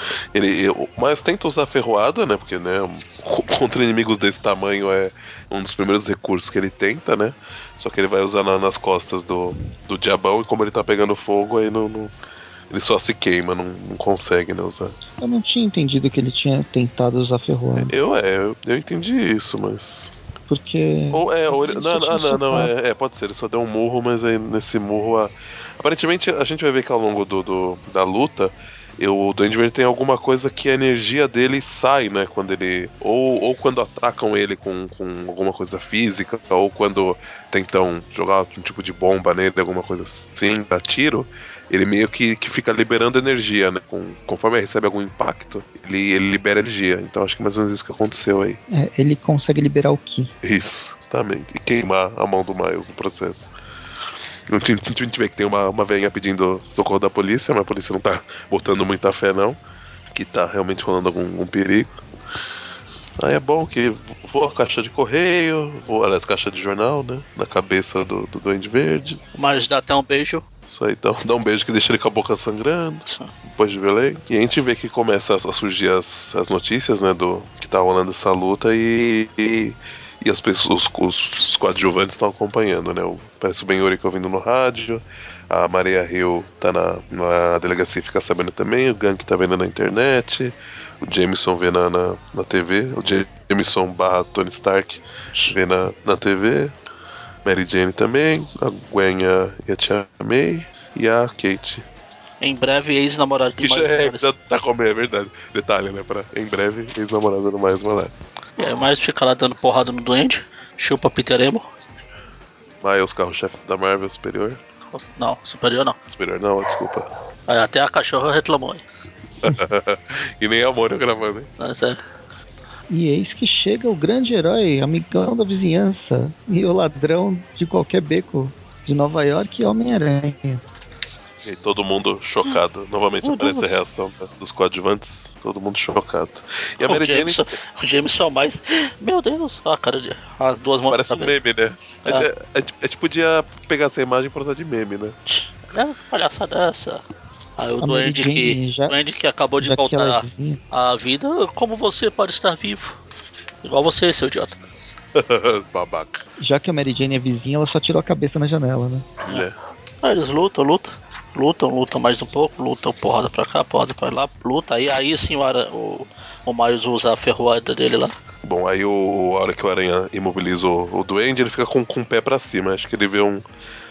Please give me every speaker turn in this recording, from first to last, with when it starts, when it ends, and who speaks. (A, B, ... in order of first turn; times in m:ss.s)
0:00.3-0:12.1 A
0:12.7-0:15.0 A
0:15.2-0:17.9 B
0:17.8-0:20.1 A
0:20.5-0:22.7 B
0:21.1-0:48.6 A
0:48.7-0:50.3 B
0:50.4-0:53.5 A
0:54.5-0:59.6 A
1:00.1-1:02.0 A
1:03.2-1:09.2 A
1:09.4-1:10.4 C
1:10.7-1:36.8 A
1:13.1-1:13.3 C
1:37.4-1:41.8 A
1:42.4-1:44.3 C
1:43.6-1:48.1 A
1:48.6-1:51.6 C
1:52.8-1:54.6 A
1:54.9-1:56.0 C
1:56.1-1:57.1 A
1:57.5-1:58.8 C
1:59.4-2:01.5 A
2:01.6-2:02.0 C
2:02.9-2:10.6 B
2:11.4-2:17.4 A
2:13.2-2:13.8 C
2:16.8-2:21.4 C
2:20.9-2:25.2 A
2:25.7-2:27.0 C
2:27.6-2:33.0 C
2:27.8-2:29.0 B
2:29.6-2:30.6 B
2:33.6-2:35.0 C
2:35.1-2:36.2 A
2:36.4-2:39.1 B
2:39.2-2:39.6 A
2:40.0-2:48.1 C
2:48.4-2:53.4 A